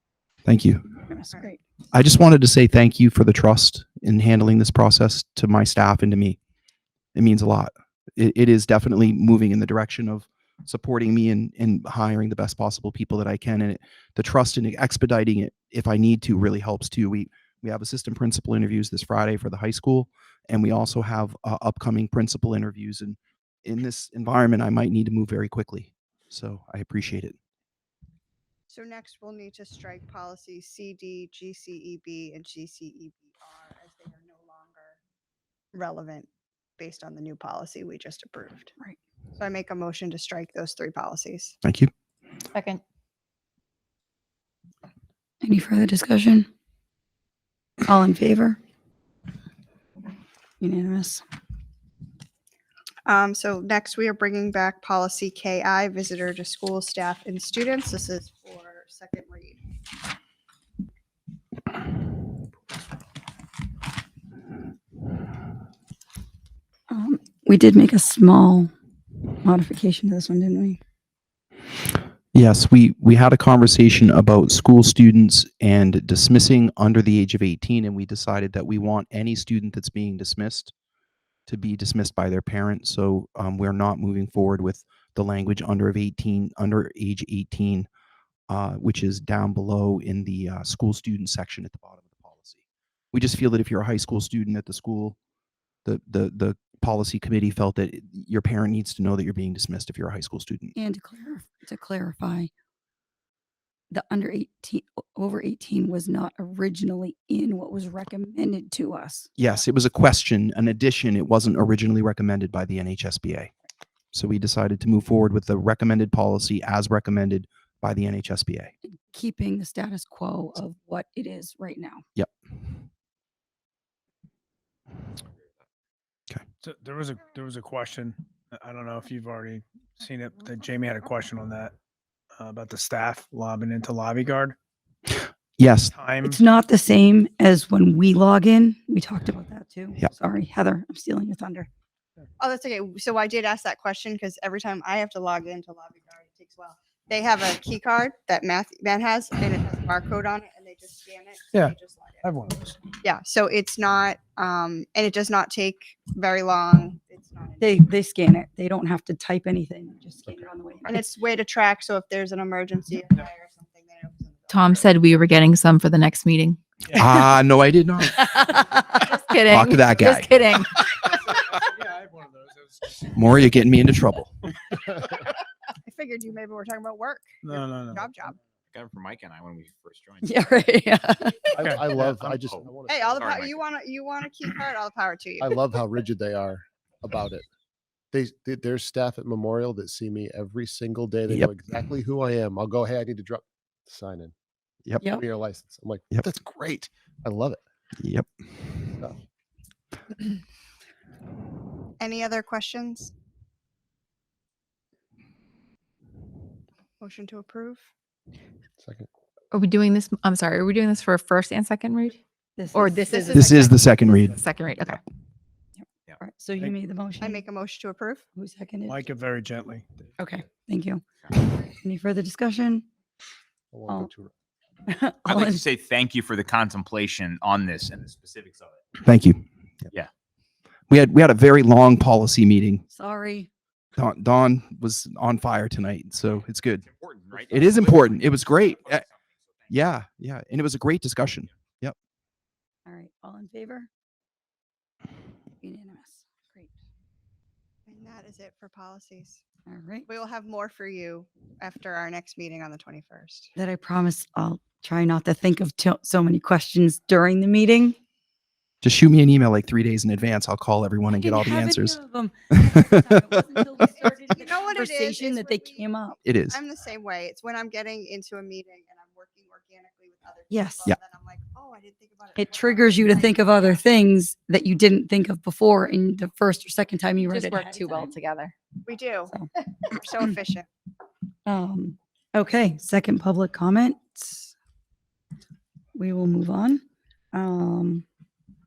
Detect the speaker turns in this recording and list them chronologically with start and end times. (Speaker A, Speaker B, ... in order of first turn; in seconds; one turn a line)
Speaker A: 0.4-0.9
Speaker B: 1.1-1.6
Speaker A: 1.9-6.4
Speaker A: 7.1-27.4
Speaker C: 28.7-35.0
Speaker C: 35.7-38.7
Speaker C: 39.4-41.5
Speaker A: 41.6-41.9
Speaker D: 42.5-42.8
Speaker B: 45.4-46.5
Speaker B: 47.9-48.6
Speaker B: 50.6-51.2
Speaker C: 53.0-59.6
Speaker B: 66.9-68.7
Speaker B: 69.4-70.8
Speaker A: 72.3-80.7
Speaker A: 81.5-87.9
Speaker A: 88.5-95.2
Speaker A: 95.8-100.7
Speaker B: 100.8-102.5
Speaker B: 103.9-109.3
Speaker A: 109.4-113.5
Speaker A: 114.1-118.7
Speaker B: 118.8-122.0
Speaker A: 122.1-122.8
Speaker E: 126.6-131.7
Speaker E: 132.3-134.6
Speaker A: 135.6-135.9
Speaker E: 135.9-136.4
Speaker B: 136.2-141.7
Speaker C: 142.4-152.3
Speaker E: 151.5-152.8
Speaker C: 153.0-157.8
Speaker B: 157.6-161.0
Speaker C: 160.9-165.2
Speaker D: 164.5-166.6
Speaker A: 166.9-168.5
Speaker D: 169.0-170.8
Speaker A: 169.4-170.3
Speaker E: 171.3-173.0
Speaker A: 173.1-174.3
Speaker C: 175.8-178.4
Speaker E: 177.4-178.2
Speaker F: 178.7-180.4
Speaker B: 180.2-181.5
Speaker G: 181.5-183.4
Speaker E: 181.6-182.3
Speaker F: 182.4-183.6
Speaker C: 182.9-185.6
Speaker G: 185.4-187.4
Speaker G: 188.1-194.3
Speaker G: 195.0-197.6
Speaker A: 198.0-198.3
Speaker C: 202.0-203.1
Speaker C: 207.0-207.8
Speaker G: 208.8-209.1
Speaker D: 209.5-212.2
Speaker B: 212.6-213.6
Speaker D: 212.7-213.7
Speaker A: 213.3-214.4
Speaker D: 214.3-215.0
Speaker B: 216.2-217.4
Speaker C: 217.2-218.2
Speaker B: 218.3-219.0
Speaker E: 218.9-220.0
Speaker B: 220.2-221.0
Speaker B: 221.6-222.8
Speaker G: 223.7-224.3
Speaker B: 224.9-225.6
Speaker F: 225.2-228.8
Speaker A: 229.0-229.4
Speaker A: 230.9-232.8
Speaker B: 232.9-233.5
Speaker A: 234.0-239.1
Speaker F: 236.8-239.7
Speaker A: 239.7-241.9
Speaker B: 242.8-243.9
Speaker B: 245.6-246.7
Speaker C: 247.9-249.4
Speaker B: 249.7-250.1
Speaker C: 250.1-253.5
Speaker B: 253.6-258.0
Speaker A: 258.8-262.0
Speaker B: 261.1-266.2
Speaker C: 263.8-273.7
Speaker A: 266.2-266.6
Speaker B: 270.5-270.9
Speaker B: 272.4-278.1
Speaker D: 277.3-278.5
Speaker C: 278.8-279.3
Speaker C: 279.9-280.7
Speaker B: 281.4-284.5
Speaker B: 285.9-288.0